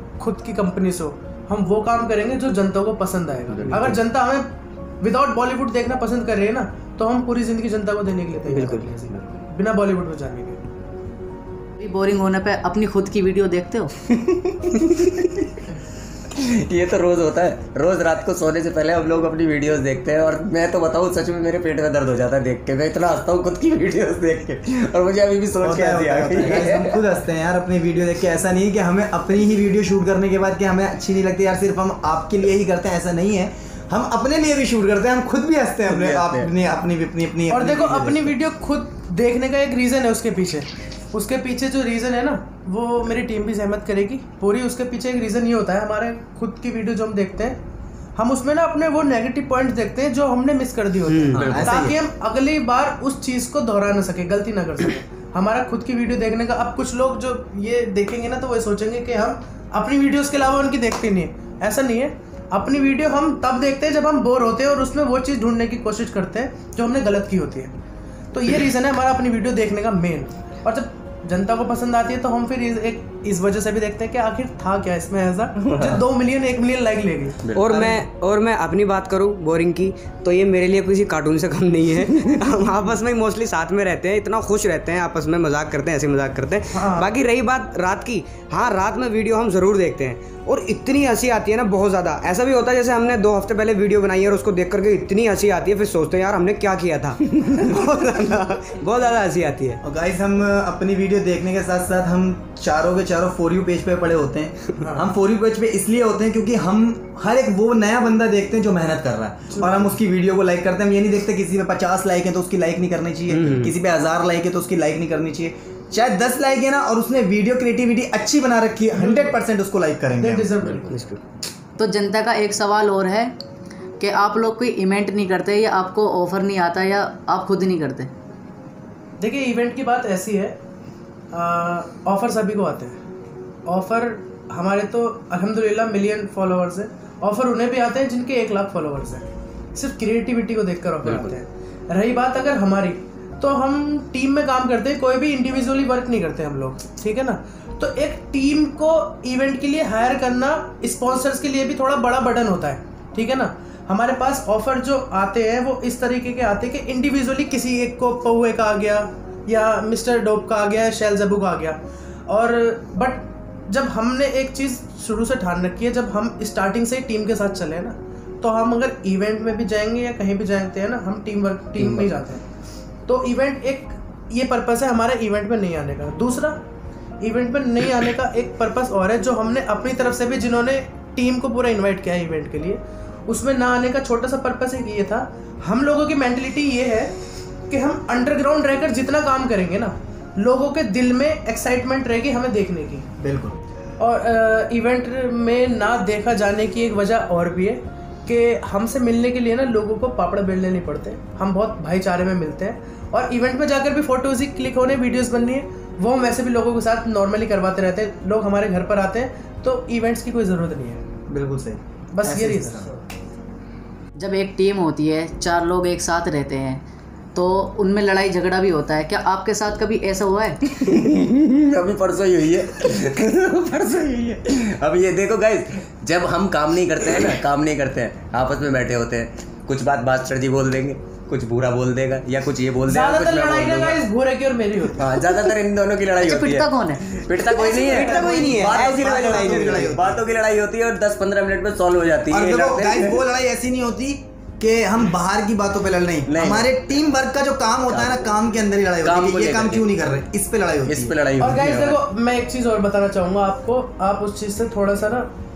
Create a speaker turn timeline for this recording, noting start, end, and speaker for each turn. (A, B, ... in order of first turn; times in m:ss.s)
0:00.2-0:04.5 A
0:03.5-0:04.0 B
0:03.7-0:04.0 C
0:05.0-0:10.6 A
0:08.5-0:09.3 C
0:11.8-0:13.9 D
0:14.1-0:15.4 B
0:16.3-0:27.0 B
0:25.6-0:38.4 E
0:35.9-0:36.5 B
0:37.5-0:47.6 A
0:48.2-1:07.7 A
0:51.1-0:51.5 C
0:51.3-0:52.0 E
0:51.4-0:51.8 B
1:08.3-1:18.0 A
1:17.5-1:39.8 C
1:26.7-1:27.1 A
1:39.8-2:00.7 E
1:44.8-1:45.1 A
1:53.3-1:53.7 C
1:58.9-1:59.4 A
2:00.2-2:00.9 A
2:00.9-2:01.2 C
2:01.8-2:03.3 D
2:04.0-2:08.1 D
2:09.2-2:10.6 A
2:11.3-2:13.0 A
2:13.7-2:52.4 A
2:21.0-2:21.4 B
2:51.8-2:52.2 B
2:53.1-2:56.6 A
2:57.2-3:07.2 A
3:07.7-3:13.1 A
3:13.2-3:13.6 E
3:14.0-3:31.0 A
3:31.3-3:33.0 E
3:32.1-3:32.8 A
3:34.2-3:40.6 D
3:40.7-3:54.0 B
3:52.9-3:55.2 A
3:55.0-4:03.2 B
3:56.2-3:57.2 D
3:57.5-3:58.7 A
3:57.6-4:00.0 C
3:58.4-4:00.2 E
4:02.3-4:11.2 E
4:06.3-4:06.8 B
4:07.9-4:08.2 B
4:09.0-4:09.9 B
4:10.9-4:12.0 B
4:11.4-4:15.3 A